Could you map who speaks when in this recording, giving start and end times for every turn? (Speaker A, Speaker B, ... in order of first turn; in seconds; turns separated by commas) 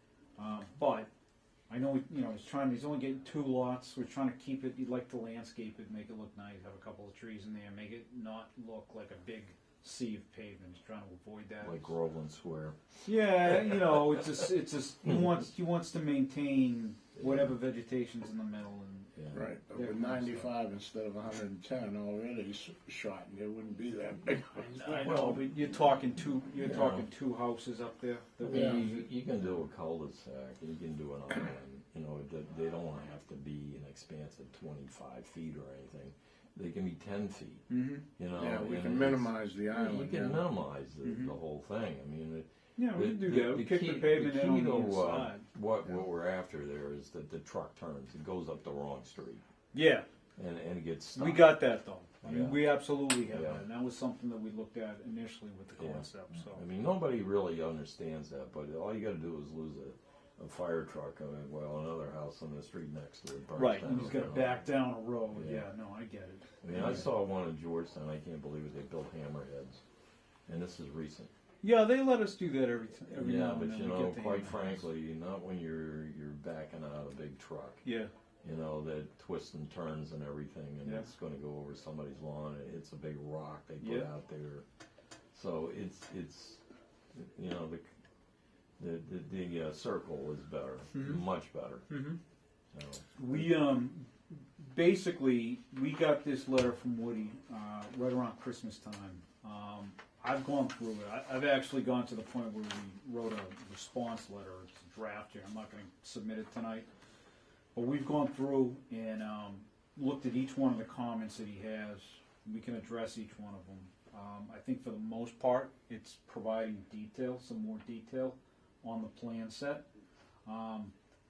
Speaker A: 0.4-1.1, Speaker A: 1.7-11.9, Speaker B: 11.6-12.9, Speaker A: 13.0-20.5, Speaker B: 13.5-13.8, Speaker B: 17.2-17.5, Speaker B: 19.1-19.5, Speaker C: 19.3-25.3, Speaker A: 24.8-29.1, Speaker B: 25.0-25.4, Speaker B: 26.6-27.1, Speaker B: 28.4-37.6, Speaker C: 28.5-28.8, Speaker A: 37.7-38.0, Speaker B: 38.2-49.4, Speaker C: 38.4-40.5, Speaker A: 41.0-41.3, Speaker A: 42.8-45.4, Speaker A: 49.7-50.0, Speaker B: 50.4-51.6, Speaker A: 51.2-56.6, Speaker B: 52.2-53.6, Speaker B: 55.8-64.6, Speaker A: 63.5-67.1, Speaker B: 65.3-65.7, Speaker B: 66.6-69.8, Speaker B: 70.5-71.3, Speaker A: 71.6-74.8, Speaker B: 73.1-77.8, Speaker A: 77.8-78.1, Speaker B: 78.4-84.6, Speaker A: 80.8-81.1, Speaker A: 83.8-84.1, Speaker B: 85.3-86.6, Speaker B: 87.1-87.8, Speaker B: 88.8-91.9, Speaker A: 90.9-91.2, Speaker A: 91.9-92.2, Speaker B: 92.7-93.5, Speaker A: 93.2-106.9, Speaker A: 107.7-119.8, Speaker A: 120.4-120.9